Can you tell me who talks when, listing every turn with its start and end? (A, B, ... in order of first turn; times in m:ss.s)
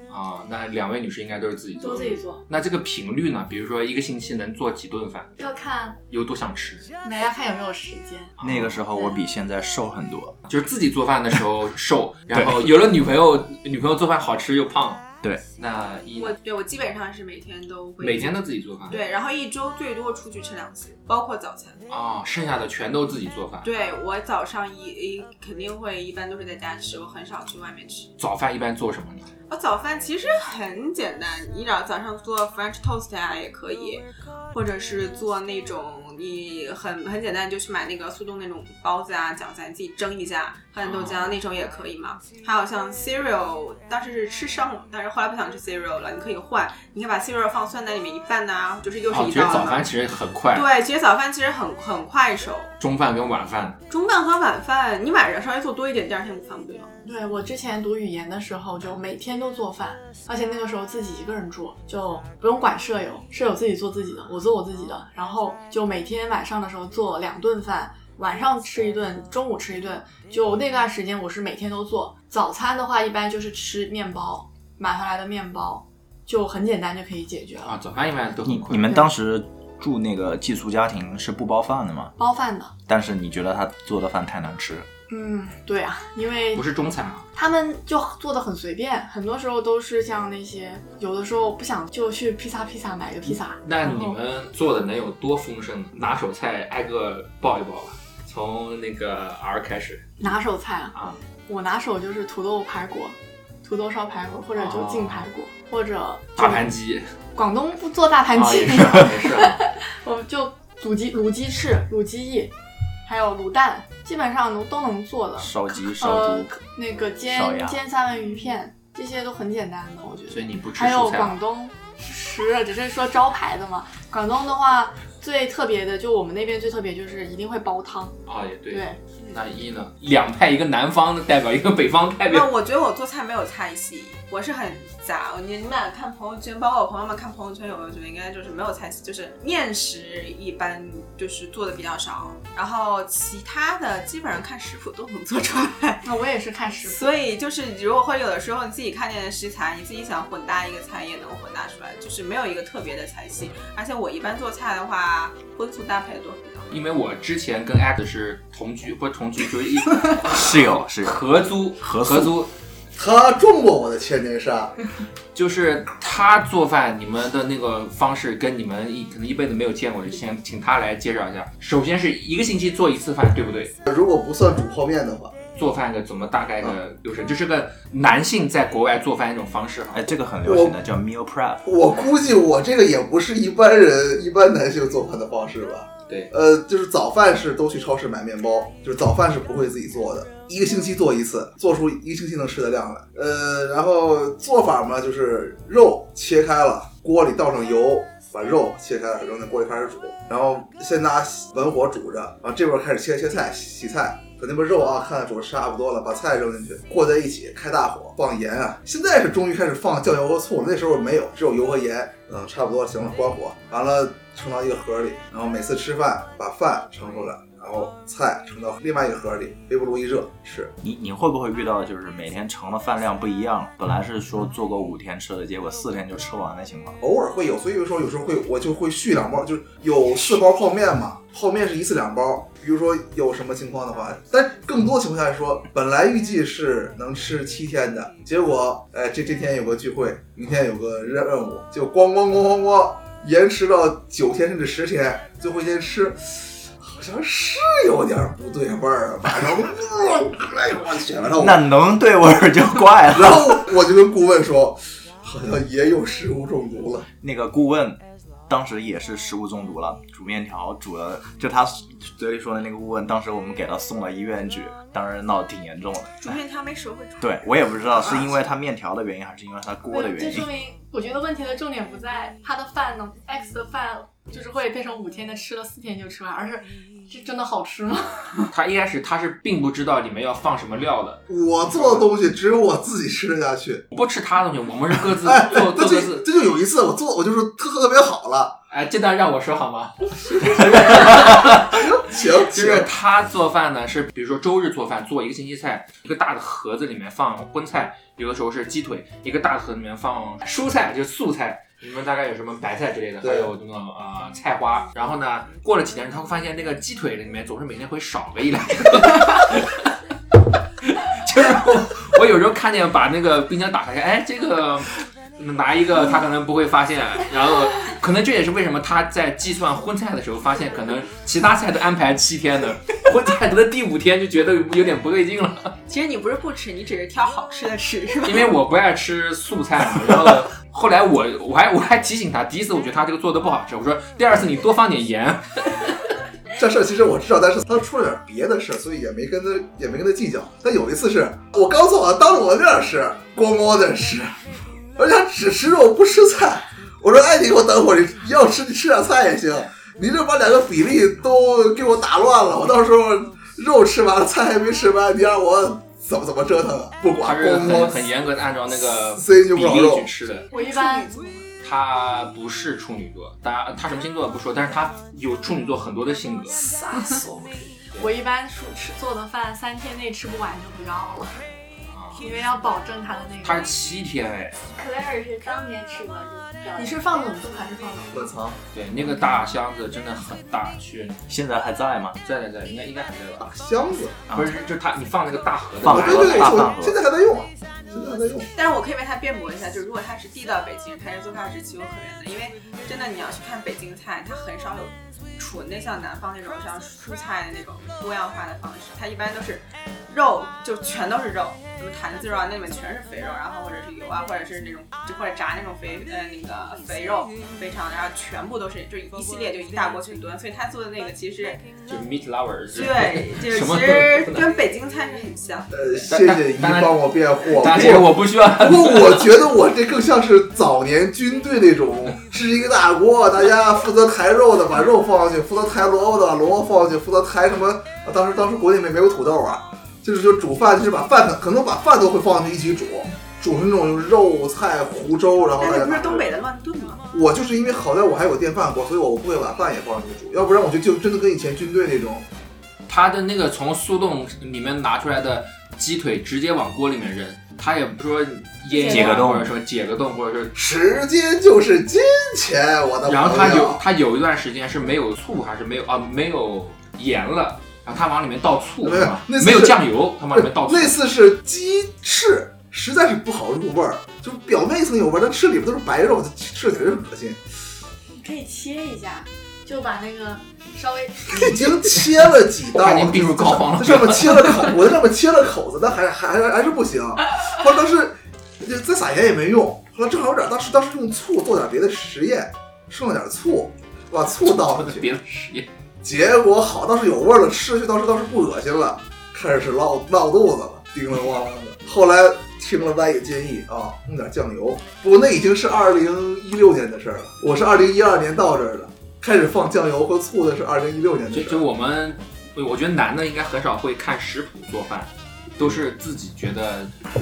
0:00.1-0:05.4 A
0:01.8-0:02.4 B
0:05.4-0:06.0 B
0:06.1-0:06.9 A
0:07.0-0:08.3 B
0:08.4-0:08.8 A
0:08.4-0:10.4 C
0:08.9-0:09.2 B
0:10.5-0:15.0 A
0:12.3-0:12.7 C
0:15.6-0:16.4 A
0:16.2-0:21.8 D
0:18.0-0:19.0 A
0:21.9-0:23.7 A
0:23.6-0:28.1 D
0:28.2-0:29.3 A
0:29.5-0:49.9 D
0:40.8-0:41.4 A
0:49.1-0:50.7 A
0:50.5-0:52.7 D
0:52.8-0:53.8 A
0:53.9-0:56.9 D
0:57.0-1:17.8 B
1:17.7-1:19.0 A
1:18.4-1:22.1 C
1:22.2-1:22.7 B
1:22.9-1:24.9 C
1:25.1-1:26.6 B
1:26.6-1:27.3 A
1:27.4-1:34.2 B
1:33.6-1:40.1 A
1:40.2-1:40.9 B
1:40.9-1:41.2 A
1:41.5-1:46.7 B
1:44.6-1:45.3 A
1:46.4-1:47.0 A
1:47.4-1:52.5 B
1:48.3-1:49.6 A
1:53.1-2:08.2 B
1:55.4-1:56.5 C
1:57.3-1:57.8 C
2:00.3-2:01.4 A
2:08.3-2:12.5 A
2:08.7-2:09.0 B
2:12.3-2:26.1 D
2:26.0-2:27.1 B
2:26.8-2:36.8 D
2:36.7-2:42.5 A
2:40.2-2:41.2 C
2:41.8-2:42.4 C
2:43.0-2:44.8 E
2:45.3-2:53.8 A
2:53.9-2:55.3 E
2:55.6-3:00.1 A
2:59.9-3:01.6 C
3:00.4-3:00.8 E
3:01.6-3:40.7 E
3:40.8-3:47.0 C
3:47.0-4:11.7 E
4:11.3-4:13.7 C
4:13.1-4:17.1 E
4:17.2-4:26.4 C
4:26.2-4:27.4 D
4:27.2-4:30.5 C
4:29.9-4:38.5 B
4:38.5-4:42.1 A
4:41.3-4:43.8 E
4:43.9-4:46.3 A
4:45.2-4:48.6 E
4:48.7-5:09.9 A
4:50.2-4:52.9 E
5:03.2-5:03.5 E
5:10.8-5:25.7 A
5:25.9-5:28.6 D
5:28.2-5:36.0 A
5:36.6-5:44.4 E
5:45.0-5:58.1 E
5:57.2-6:00.5 A
5:59.1-6:00.1 E
6:00.5-6:01.1 B
6:00.5-6:01.4 D
6:01.6-6:06.6 A
6:06.6-6:07.2 B
6:07.2-6:08.1 A
6:08.0-6:11.4 B
6:11.9-6:12.3 A
6:12.2-6:13.7 B
6:13.4-6:14.6 A
6:14.8-6:17.7 F
6:16.8-6:18.2 B
6:18.1-6:18.6 E
6:18.7-6:21.2 A
6:21.3-6:22.2 C
6:22.2-6:23.5 A
6:23.4-6:24.2 E
6:24.3-6:24.6 C
6:24.3-6:26.6 A
6:25.8-6:27.0 C
6:25.9-6:28.5 E
6:28.6-6:51.7 D
6:51.9-6:54.5 A
6:52.7-6:55.8 D
6:55.7-7:16.4 E
6:56.1-6:59.4 A
7:15.6-7:17.0 D
7:17.1-7:22.3 E
7:22.9-7:30.5 A
7:28.9-7:29.5 C
7:30.6-7:33.8 E
7:33.0-7:41.0 A
7:38.8-7:39.8 E
7:40.3-7:47.4 E
7:48.2-7:51.7 B
7:51.3-8:05.1 E
7:52.7-7:54.8 A
8:04.4-8:05.7 A
8:06.0-8:21.7 E
8:21.3-8:27.0 A